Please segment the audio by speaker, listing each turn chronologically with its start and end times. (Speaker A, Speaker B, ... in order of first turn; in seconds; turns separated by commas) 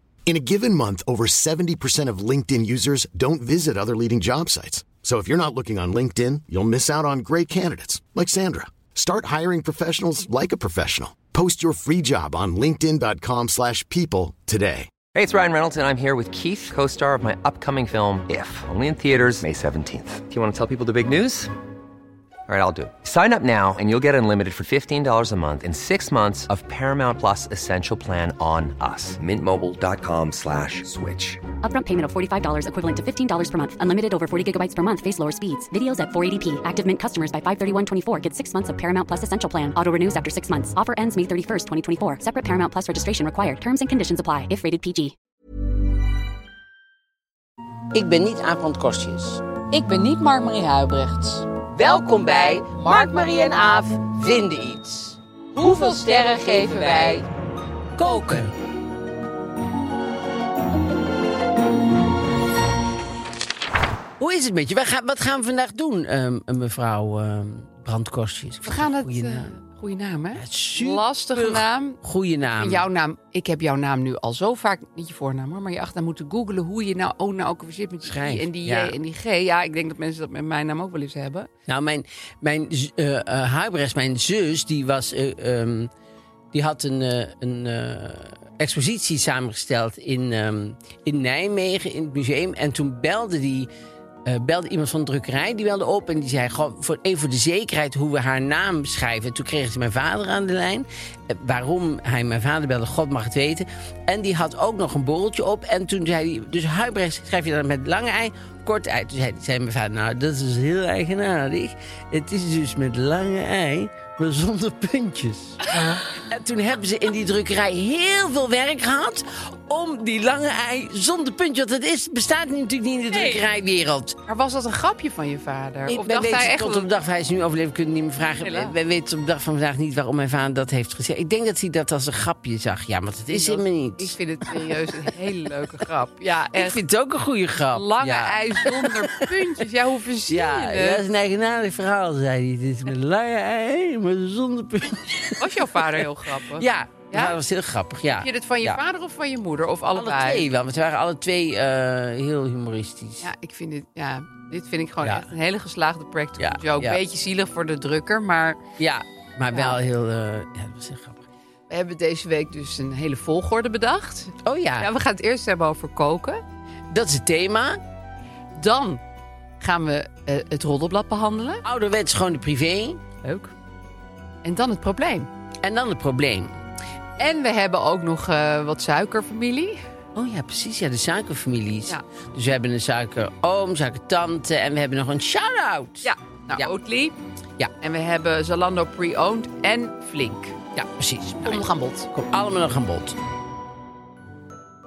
Speaker A: 0.3-14.9, Speaker B: 15.1-21.5, Speaker B: 22.5-31.4, Speaker C: 31.6-45.1, Speaker D: 47.9-49.4, Speaker E: 49.7-51.5, Speaker D: 51.5-57.3, Speaker E: 56.2-57.2, Speaker D: 58.0-58.5, Speaker D: 64.2-69.5, Speaker E: 68.7-72.0, Speaker D: 70.4-72.8, Speaker E: 72.6-81.5, Speaker D: 78.0-79.0, Speaker D: 81.7-85.9, Speaker D: 86.5-93.7, Speaker D: 94.2-124.2, Speaker E: 123.1-123.5, Speaker E: 124.3-126.9, Speaker D: 125.9-135.1, Speaker E: 128.4-128.7, Speaker E: 133.3-136.8, Speaker D: 136.5-139.5, Speaker E: 137.7-141.1, Speaker D: 140.3-148.8, Speaker E: 145.4-147.4, Speaker E: 148.1-150.5, Speaker D: 149.9-153.3, Speaker E: 153.2-158.6, Speaker D: 155.0-155.3, Speaker D: 156.4-157.0, Speaker D: 158.8-161.2, Speaker E: 159.5-159.8, Speaker E: 161.7-166.4, Speaker D: 164.4-164.9, Speaker D: 166.9-167.8, Speaker E: 168.6-169.0, Speaker E: 169.6-171.6, Speaker D: 171.6-173.0, Speaker E: 173.2-173.5, Speaker E: 174.4-175.3, Speaker D: 175.6-176.6, Speaker E: 177.2-179.8, Speaker D: 180.2-186.7, Speaker E: 186.0-187.2, Speaker E: 187.8-190.6, Speaker D: 190.8-193.2, Speaker E: 191.4-192.1